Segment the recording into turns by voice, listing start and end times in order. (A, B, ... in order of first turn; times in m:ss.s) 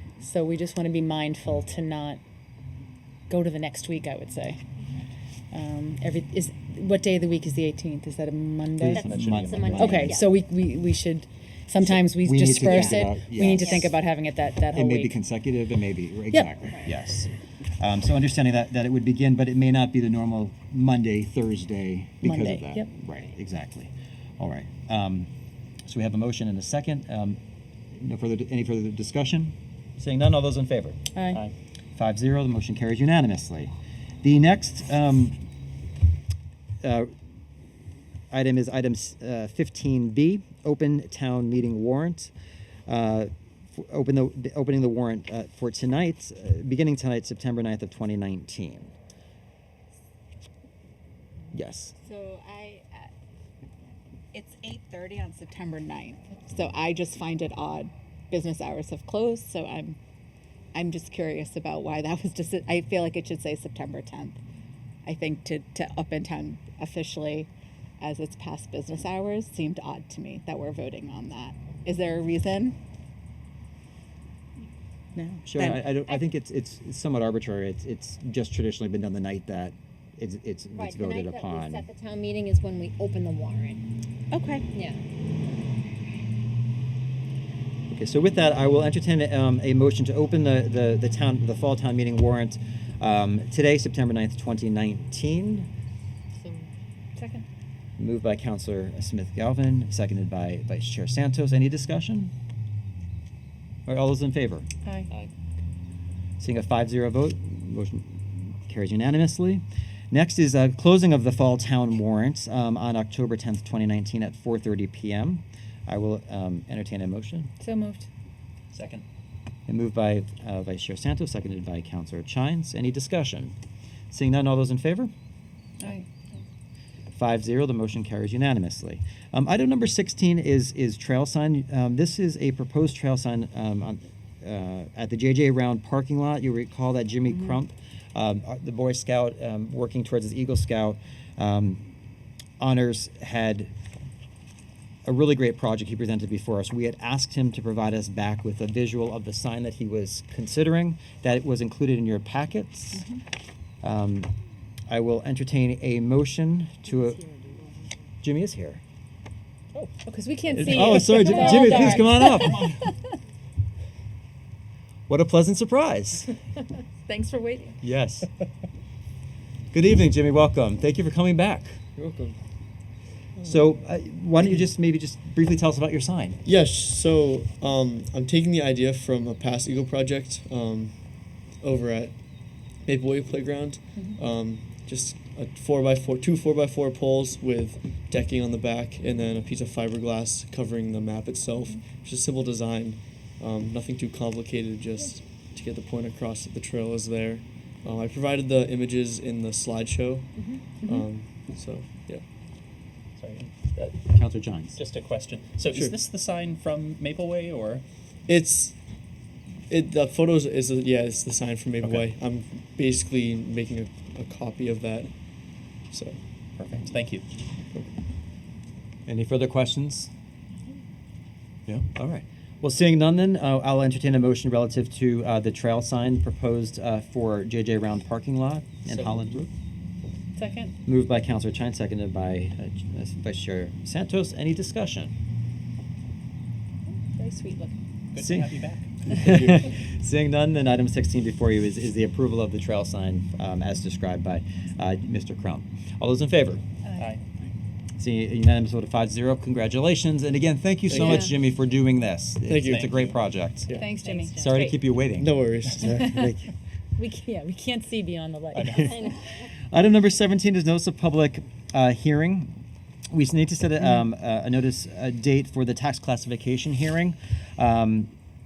0:00.2-0:02.2 A
0:03.3-0:04.6 A
0:05.5-0:09.0 A
0:08.8-0:10.2 B
0:08.9-0:10.3 C
0:09.0-0:10.0 D
0:09.7-0:15.1 A
0:11.9-0:13.9 B
0:12.6-0:13.0 C
0:13.6-0:13.9 C
0:14.7-0:25.3 B
0:22.2-0:22.9 A
0:25.9-0:27.4 B
0:28.0-0:31.4 B
0:31.1-0:31.4 A
0:32.0-0:33.7 B
0:34.2-0:35.4 B
0:36.8-0:37.1 B
0:38.3-0:42.3 B
0:42.9-0:48.9 B
0:51.5-0:51.9 B
0:52.0-0:53.1 E
0:54.3-1:00.0 E
1:00.7-1:04.4 E
1:05.0-1:07.5 E
1:08.0-1:12.8 E
1:15.2-1:15.8 A
1:15.4-1:21.8 B
1:20.7-1:23.8 C
1:24.7-1:25.0 C
1:27.9-1:35.7 B
1:37.2-1:37.4 A
1:38.0-1:42.3 B
1:43.9-1:44.7 B
1:44.8-1:45.1 A
1:46.4-1:57.5 B
1:57.6-1:58.1 A
1:58.7-1:59.0 D
1:59.7-2:03.5 B
2:04.1-2:05.1 B
2:05.8-2:06.0 A
2:07.1-2:21.9 B
2:22.6-2:23.7 B
2:25.0-2:33.1 B
2:33.0-2:33.2 A
2:33.8-2:34.3 B
2:34.9-2:37.2 B
2:38.2-2:38.8 B
2:40.0-2:42.9 A
2:40.5-2:42.7 B
2:45.1-2:46.3 B
2:47.1-2:47.8 A
2:47.8-2:48.3 B
2:49.7-2:51.8 B
2:52.0-2:52.4 F
2:53.4-2:56.4 B
2:56.4-3:02.2 F
3:02.8-3:22.2 F
3:04.0-3:04.2 A
3:20.8-3:21.1 A
3:23.2-3:24.1 D
3:24.1-3:24.8 B
3:24.8-3:27.8 D
3:25.7-3:26.0 F
3:28.3-3:28.8 F
3:29.7-3:35.1 F
3:35.9-3:36.2 F
3:36.6-3:37.2 D
3:39.1-3:40.1 B
3:41.9-3:49.5 B
3:50.4-3:50.7 A
3:50.8-3:55.1 B
3:56.9-3:57.8 A
3:58.1-3:59.0 D
3:58.2-3:58.5 B
3:59.1-4:06.6 B
3:59.2-3:59.6 F
4:06.8-4:07.1 A
4:07.0-4:07.2 D
4:08.0-4:13.8 B
4:10.9-4:11.3 F
4:10.9-4:11.3 A
4:12.4-4:12.9 F
4:12.7-4:13.2 D
4:13.7-4:14.8 A
4:14.0-4:14.3 C
4:14.4-4:16.5 B
4:15.2-4:16.0 F
4:15.8-4:16.3 A
4:17.0-4:19.1 A
4:18.6-4:18.9 D
4:18.9-4:19.2 C
4:19.7-4:22.6 B
4:23.1-4:28.1 B